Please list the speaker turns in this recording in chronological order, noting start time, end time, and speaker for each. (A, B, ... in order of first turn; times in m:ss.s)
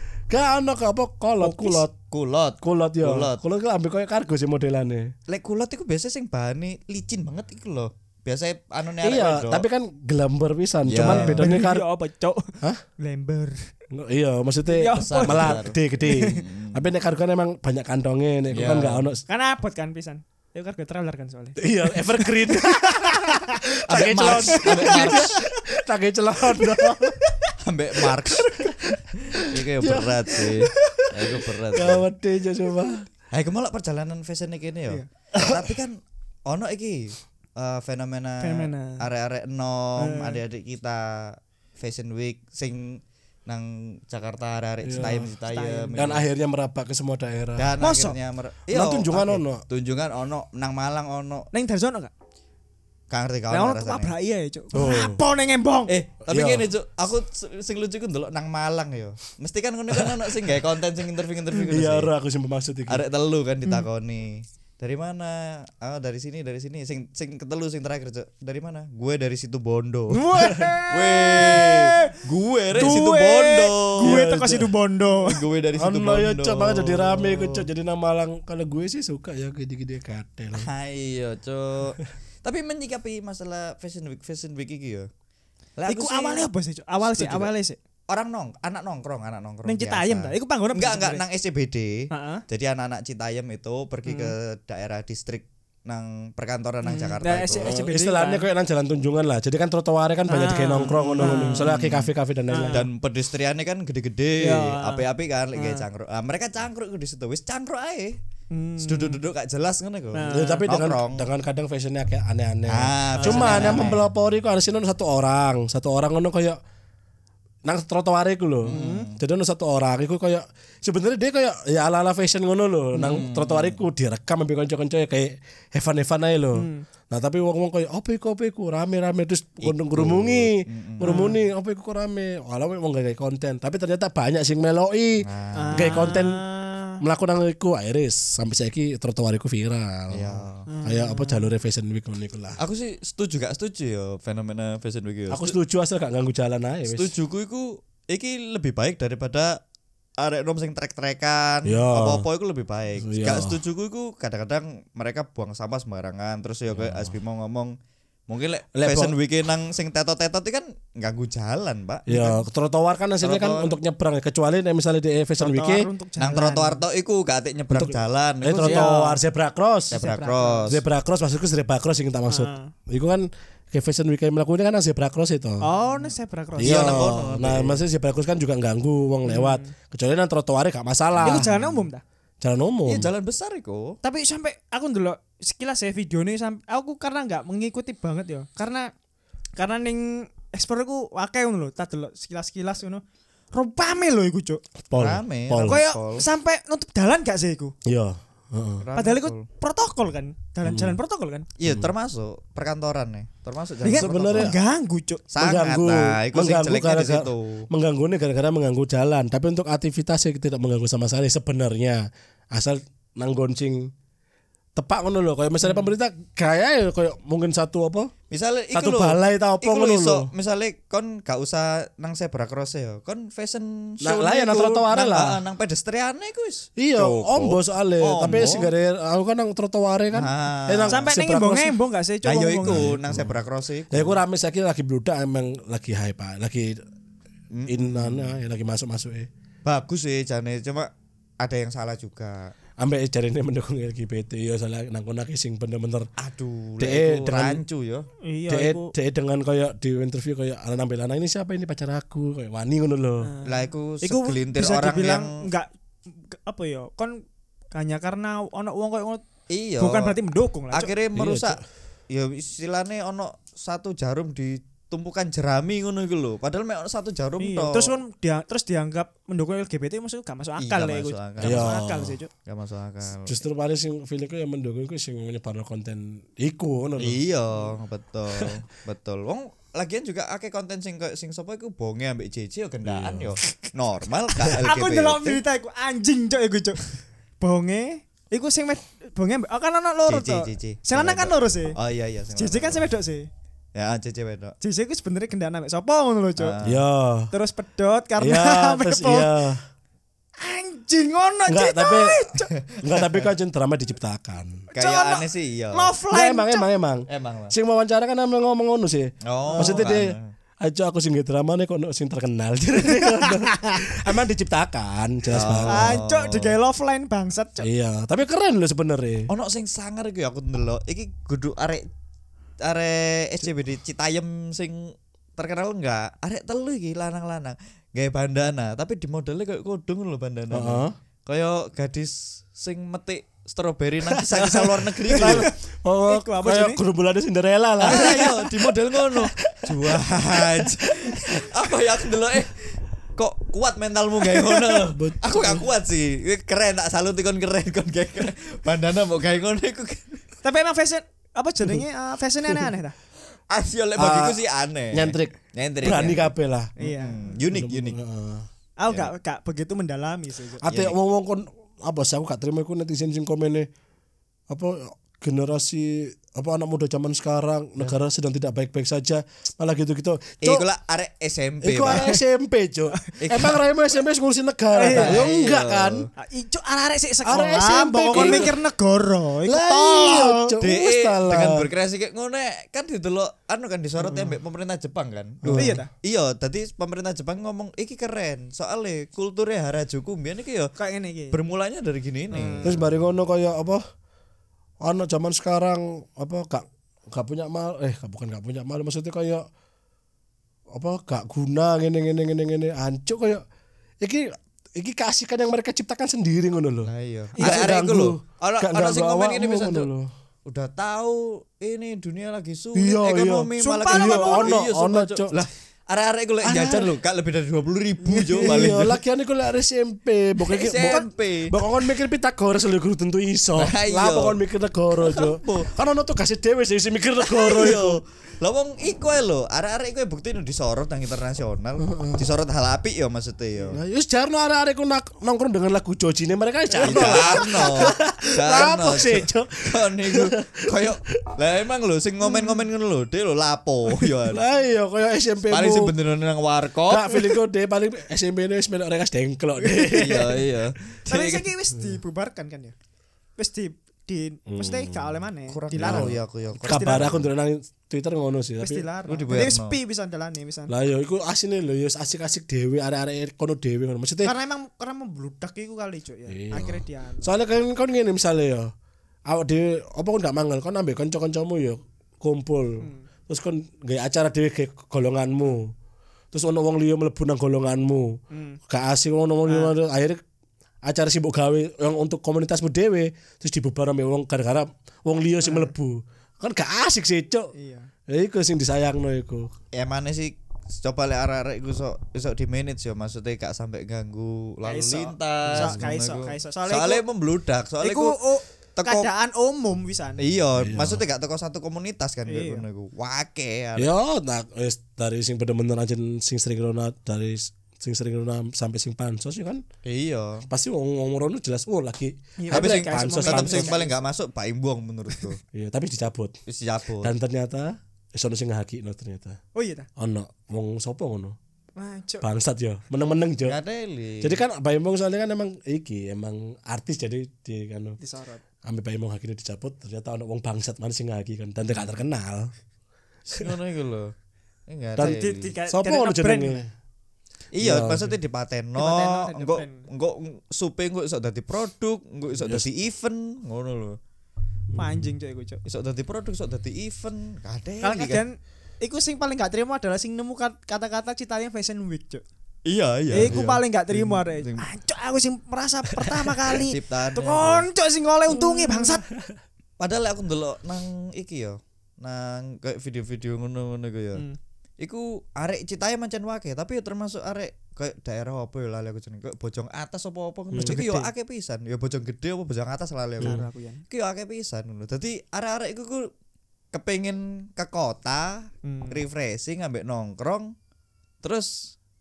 0:00.3-0:01.9 A
0:01.4-0:03.4 B
0:02.6-0:05.1 A
0:05.3-0:09.6 B
0:09.0-0:11.8 A
0:10.8-0:11.5 B
0:11.0-0:13.7 C
0:13.9-0:19.2 A
0:14.7-0:16.4 C
0:14.9-0:16.9 B
0:18.5-0:19.1 B
0:19.3-0:25.6 C
0:21.6-0:27.2 A
0:23.9-0:25.4 B
0:26.7-0:27.5 C
0:27.6-0:28.7 B
0:28.4-0:33.0 A
0:29.3-0:32.0 B
0:33.3-0:46.2 B
0:35.4-0:35.6 A
0:38.4-0:39.0 C
0:40.0-0:40.4 C
0:44.8-0:45.3 A
0:45.0-0:46.1 C
0:46.0-0:47.7 A
0:47.6-0:51.5 B
0:47.8-0:48.2 C
0:48.7-0:49.6 A
0:51.5-0:52.1 C
0:53.1-0:54.1 B
0:53.5-0:55.9 C
0:54.7-0:55.2 A
0:55.9-1:02.1 B
0:56.3-0:56.7 A
1:01.7-1:03.0 A
1:02.9-1:10.2 B
1:10.1-1:12.2 C
1:10.9-1:14.2 B
1:12.7-1:15.4 C
1:14.0-1:14.7 A
1:15.1-1:17.7 B
1:15.8-1:20.7 A
1:20.5-1:25.1 B
1:25.8-1:26.4 B
1:25.8-1:27.8 C
1:27.0-1:27.5 B
1:28.1-1:37.7 B
1:29.6-1:31.2 C
1:32.1-1:32.4 C
1:34.0-1:34.3 C
1:36.8-1:38.5 C
1:37.6-1:42.8 A
1:40.3-1:41.7 C
1:40.9-1:48.2 B
1:42.5-1:42.9 C
1:44.4-1:45.8 C
1:48.5-1:49.2 C
1:48.8-1:51.3 B
1:50.1-1:50.6 C
1:50.3-1:56.6 A
1:52.7-1:54.1 B
1:53.2-1:53.9 C
1:57.6-2:16.4 A
1:58.6-1:59.2 B
1:58.6-1:59.1 C
2:02.9-2:03.2 C
2:03.0-2:03.8 B
2:06.5-2:06.8 C
2:09.6-2:11.3 B
2:11.0-2:11.4 C
2:15.2-2:16.1 B
2:15.5-2:17.0 C
2:17.0-2:22.6 A
2:20.1-2:20.7 B
2:20.7-2:21.5 C
2:22.6-2:25.6 B
2:25.3-2:27.1 A
2:26.9-2:29.6 B
2:30.2-2:37.7 B
2:31.6-2:32.2 A
2:33.0-2:33.6 A
2:36.7-2:37.1 A
2:38.3-2:42.4 B
2:38.7-2:39.2 A
2:42.1-2:45.9 A
2:43.2-2:43.8 B
2:45.4-2:46.8 C
2:46.2-2:49.0 B
2:47.7-2:50.0 A
2:48.6-2:49.2 C
2:49.9-2:50.8 B
2:49.9-2:50.7 C
2:50.7-2:55.7 A
2:52.3-2:52.7 C
2:55.6-2:57.2 C
2:56.6-3:01.5 A
2:56.6-2:57.8 B
2:59.2-2:59.7 C
3:01.2-3:01.8 B
3:01.2-3:02.0 C
3:02.4-3:03.1 A
3:02.8-3:04.0 B
3:04.0-3:08.9 C
3:09.6-3:13.0 C
3:13.5-3:14.6 C
3:14.8-3:15.8 A
3:14.9-3:16.2 B
3:15.6-3:17.7 C
3:17.8-3:18.8 A
3:18.8-3:19.4 B
3:19.0-3:21.4 C
3:20.6-3:21.0 A
3:21.6-3:24.6 B
3:21.6-3:21.9 A
3:23.8-3:25.2 C
3:23.9-3:24.6 A
3:25.3-3:27.7 B
3:25.4-3:33.9 A
3:34.7-3:38.1 A
3:35.6-3:35.9 C
3:38.3-3:48.7 B
3:38.7-3:40.3 A
3:44.0-3:45.4 A
3:46.8-3:51.8 A
3:50.1-3:51.0 B
3:50.9-3:53.0 C
3:52.2-3:54.2 B
3:52.6-3:53.4 A
3:53.9-3:56.8 A
3:57.5-3:58.4 B
3:57.7-3:59.3 A
3:59.6-4:00.9 B
4:01.4-4:02.5 B
4:02.8-4:06.1 A
4:06.2-4:08.1 B
4:06.8-4:07.6 A
4:08.2-4:08.9 C
4:08.5-4:13.3 A
4:13.2-4:15.7 C
4:13.4-4:15.3 B
4:16.2-4:17.2 C
4:17.7-4:19.2 C
4:19.5-4:20.2 B
4:19.8-4:20.9 C
4:20.7-4:27.9 B
4:21.1-4:21.6 A
4:27.4-4:32.3 C
4:30.6-4:31.8 B
4:31.4-4:32.2 A
4:32.4-4:33.4 B
4:33.2-4:37.2 A
4:37.0-4:45.4 B
4:42.8-4:43.4 A
4:44.5-4:51.8 C
4:50.1-4:52.8 B
4:52.4-4:53.3 C
4:53.7-4:54.6 B
4:54.6-4:56.5 C
4:56.4-4:56.8 B
4:56.6-4:57.3 A
4:57.3-4:59.3 C
4:58.2-4:59.6 A
5:00.4-5:02.5 C
5:01.5-5:02.2 A
5:02.6-5:03.3 B
5:02.8-5:04.6 A
5:04.7-5:06.7 C
5:04.8-5:05.9 B
5:06.1-5:15.9 A
5:07.1-5:07.5 B
5:09.2-5:10.3 B
5:09.5-5:09.9 C
5:12.8-5:13.8 C
5:15.3-5:16.5 B
5:15.7-5:17.7 C
5:17.6-5:19.3 A
5:19.3-5:21.9 B
5:22.6-5:35.5 B
5:30.5-5:31.0 A
5:34.4-5:35.5 C
5:35.1-5:41.5 A
5:36.0-5:36.8 C
5:37.8-5:50.2 B
5:37.8-5:38.3 C
5:44.8-5:45.7 A
5:50.4-5:52.9 C
5:53.5-5:58.0 B
5:54.0-5:54.4 A
5:54.9-5:56.7 A
5:56.8-5:57.3 C
5:57.5-5:58.5 A
5:58.8-6:00.6 C
6:00.6-6:03.7 A
6:00.6-6:00.9 B
6:04.5-6:10.6 A
6:10.4-6:12.1 B
6:11.6-6:16.1 A
6:11.9-6:12.2 C
6:13.2-6:13.6 B
6:14.7-6:15.3 C
6:14.9-6:16.1 B
6:16.2-6:20.6 C
6:17.2-6:18.5 A
6:18.1-6:18.5 B
6:19.4-6:21.6 A
6:20.6-6:30.7 B
6:24.0-6:24.4 C
6:25.4-6:25.8 A
6:25.5-6:25.9 C
6:30.8-6:31.4 C
6:31.3-6:32.8 B
6:32.3-6:32.8 C
6:32.6-6:33.8 A
6:34.8-6:39.4 A
6:40.7-6:43.4 A
6:44.0-6:50.1 A
6:46.8-6:49.9 B
6:47.4-6:47.7 C
6:50.4-6:59.0 B
6:52.7-6:55.3 A
6:53.6-6:54.5 C
6:56.4-6:56.9 A
6:58.1-6:58.5 C
6:58.1-7:08.0 A
7:00.4-7:01.6 B
7:00.8-7:01.1 C
7:03.6-7:04.4 B
7:05.0-7:05.7 B
7:07.3-7:13.8 B
7:11.8-7:12.2 A
7:13.7-7:21.2 A
7:16.8-7:17.9 C
7:16.8-7:24.4 B
7:22.2-7:22.6 C
7:24.2-7:25.9 A
7:25.5-7:27.3 B
7:26.9-7:30.4 A
7:29.6-7:30.3 C
7:29.9-7:31.5 B
7:31.1-7:32.7 C
7:33.4-7:37.2 C
7:34.5-7:35.1 A
7:35.5-7:37.3 B
7:35.8-7:38.8 A
7:38.6-7:40.7 C
7:39.1-7:39.8 B
7:40.7-7:44.3 A
7:44.2-7:47.4 C
7:46.3-7:48.7 A
7:49.3-7:55.7 A
7:52.8-7:53.0 C
7:56.3-7:58.2 A
7:58.3-7:58.6 C
7:58.7-8:00.2 A
7:59.4-7:59.7 C
8:00.8-8:07.5 A
8:05.4-8:05.7 C
8:07.5-8:07.9 C
8:08.1-8:09.5 A
8:09.7-8:18.2 B
8:14.6-8:17.0 C
8:15.5-8:15.9 A
8:17.8-8:20.2 C
8:18.8-8:19.1 B
8:20.2-8:23.9 B
8:20.6-8:21.0 A
8:22.3-8:22.6 C
8:23.8-8:29.6 A
8:29.8-8:30.5 B
8:30.5-8:33.8 A
8:32.4-8:33.9 C
8:32.5-8:35.4 B
8:35.5-8:36.4 A
8:36.5-8:37.1 B
8:37.0-8:39.4 A
8:39.5-8:39.9 C
8:40.0-8:41.4 A
8:41.8-8:42.2 C
8:42.2-8:43.6 A
8:43.4-8:44.4 B
8:44.2-8:48.0 A
8:48.0-8:48.4 C
8:48.6-8:52.5 A
8:51.7-8:52.0 B
8:53.3-8:54.1 B
8:54.7-8:55.5 B
8:55.0-8:56.7 A
8:55.0-8:56.6 C
8:57.5-9:04.0 B
8:57.6-8:58.2 A
8:58.8-8:59.8 C
9:02.4-9:02.7 A
9:04.7-9:05.1 A
9:04.8-9:05.6 C
9:05.6-9:08.2 B
9:07.8-9:12.2 C
9:12.6-9:14.7 B
9:13.1-9:19.0 C
9:13.2-9:13.5 A
9:16.4-9:17.7 B
9:18.4-9:19.4 A
9:19.8-9:24.2 B
9:24.8-9:36.1 B
9:30.5-9:30.8 A
9:30.6-9:31.1 C
9:33.2-9:33.8 C
9:36.7-9:40.5 B
9:38.6-9:39.0 C
9:41.2-9:41.7 B